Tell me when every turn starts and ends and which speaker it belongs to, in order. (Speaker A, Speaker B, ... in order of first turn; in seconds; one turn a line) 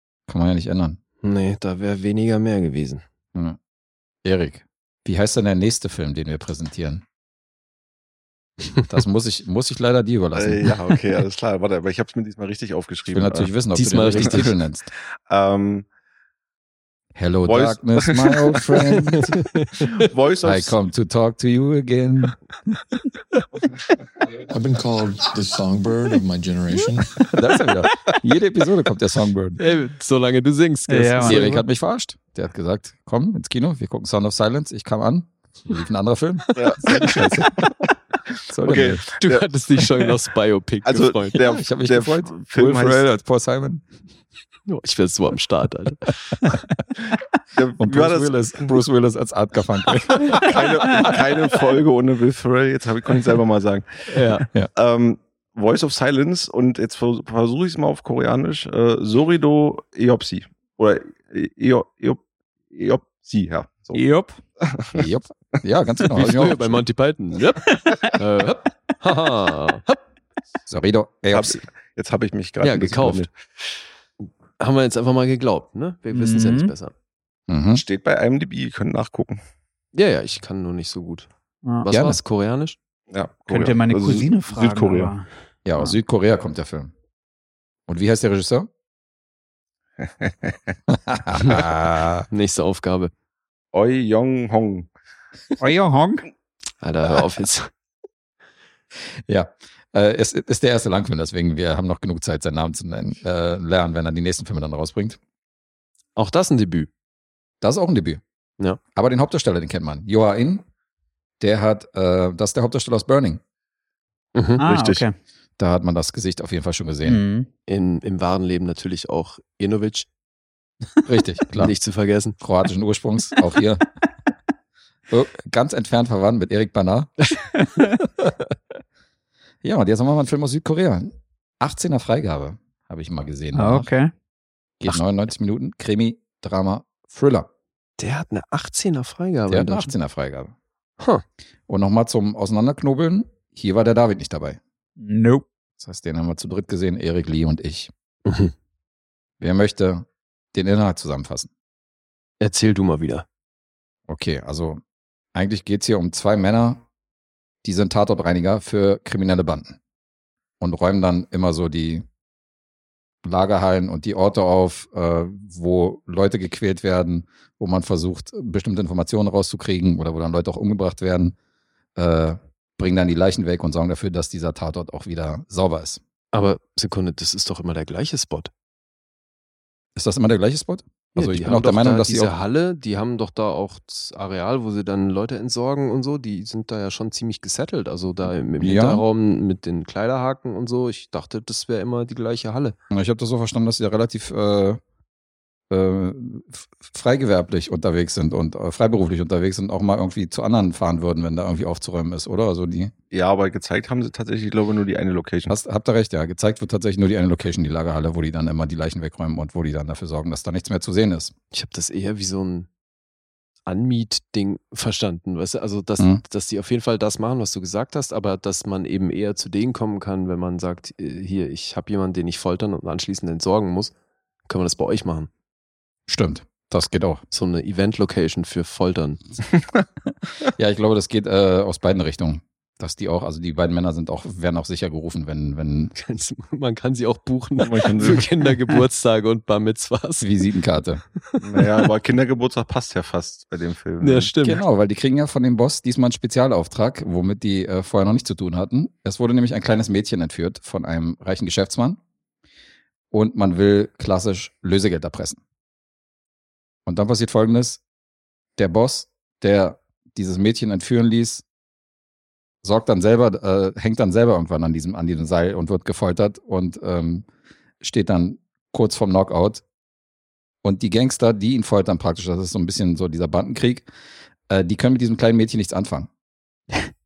Speaker A: 0.3-1.0
Speaker B: 1.2-3.0
Speaker A: 4.2-7.0
Speaker A: 8.9-10.7
Speaker C: 10.3-13.5
Speaker A: 13.1-14.9
Speaker B: 13.8-14.5
Speaker C: 14.1-14.4
Speaker C: 15.3-15.9
Speaker A: 17.1-19.4
Speaker C: 17.4-19.2
Speaker B: 19.1-20.1
Speaker C: 19.8-20.7
Speaker A: 20.4-22.4
Speaker D: 24.5-27.0
Speaker A: 27.3-29.6
Speaker B: 29.6-31.6
Speaker E: 30.9-31.4
Speaker A: 31.2-37.6
Speaker C: 36.6-37.7
Speaker A: 38.5-39.0
Speaker C: 38.6-39.5
Speaker B: 39.2-41.4
Speaker C: 40.9-43.0
Speaker A: 41.4-43.8
Speaker B: 44.7-46.4
Speaker C: 47.5-48.8
Speaker A: 47.8-51.0
Speaker C: 50.1-53.9
Speaker B: 54.1-54.5
Speaker C: 54.8-64.0
Speaker E: 63.9-64.4
Speaker C: 64.6-65.1
Speaker A: 64.9-66.9
Speaker B: 66.2-70.0
Speaker E: 67.8-68.1
Speaker A: 70.7-71.6
Speaker C: 71.3-73.3
Speaker B: 72.6-73.3
Speaker B: 74.6-76.9
Speaker E: 76.1-76.7
Speaker A: 77.5-77.8
Speaker C: 77.7-79.4
Speaker B: 79.9-81.3
Speaker B: 81.8-82.8
Speaker A: 81.9-82.2
Speaker C: 83.1-85.1
Speaker E: 83.5-86.0
Speaker A: 85.7-86.9
Speaker A: 87.9-88.7
Speaker C: 90.0-90.6
Speaker A: 90.9-92.3
Speaker B: 91.4-91.7
Speaker B: 92.3-93.1
Speaker C: 93.7-94.9
Speaker E: 95.6-96.3
Speaker B: 96.8-97.7
Speaker A: 99.3-105.2
Speaker B: 106.2-106.9
Speaker A: 107.6-108.2
Speaker A: 109.0-110.7
Speaker A: 111.4-113.4
Speaker B: 114.3-114.6
Speaker E: 114.6-115.2
Speaker C: 114.6-115.0
Speaker A: 115.6-117.2
Speaker E: 117.1-117.5
Speaker B: 117.7-120.1
Speaker A: 121.0-121.8
Speaker B: 121.5-122.4
Speaker A: 122.4-123.8
Speaker A: 125.1-127.3
Speaker E: 127.6-128.0
Speaker A: 129.6-133.9
Speaker E: 133.5-134.1
Speaker A: 134.8-137.5
Speaker B: 138.0-139.9
Speaker A: 139.5-140.5
Speaker A: 141.7-144.6
Speaker E: 145.0-145.5
Speaker A: 145.8-147.9
Speaker B: 148.3-148.5
Speaker A: 149.4-151.5
Speaker B: 152.4-153.2
Speaker A: 154.1-154.8
Speaker A: 155.3-156.8
Speaker A: 157.6-159.8
Speaker A: 160.6-162.1
Speaker A: 163.2-171.4
Speaker A: 172.0-176.0
Speaker B: 176.3-178.5
Speaker A: 180.0-182.3
Speaker B: 181.2-192.8
Speaker A: 188.6-189.0
Speaker A: 192.9-194.8
Speaker A: 195.7-202.9
Speaker C: 203.1-205.6
Speaker A: 205.5-211.3
Speaker B: 211.5-212.7
Speaker B: 213.7-223.9
Speaker B: 224.5-225.3
Speaker A: 226.1-227.2
Speaker B: 227.3-229.4
Speaker A: 230.6-235.9
Speaker B: 235.9-240.3
Speaker C: 237.6-238.3
Speaker A: 240.2-241.0
Speaker C: 241.4-244.3
Speaker B: 244.0-244.6
Speaker A: 244.4-252.0
Speaker A: 253.1-255.4
Speaker A: 256.9-257.8
Speaker A: 258.6-261.4
Speaker A: 262.6-267.3
Speaker A: 267.8-269.6
Speaker A: 270.6-273.9
Speaker A: 274.5-276.1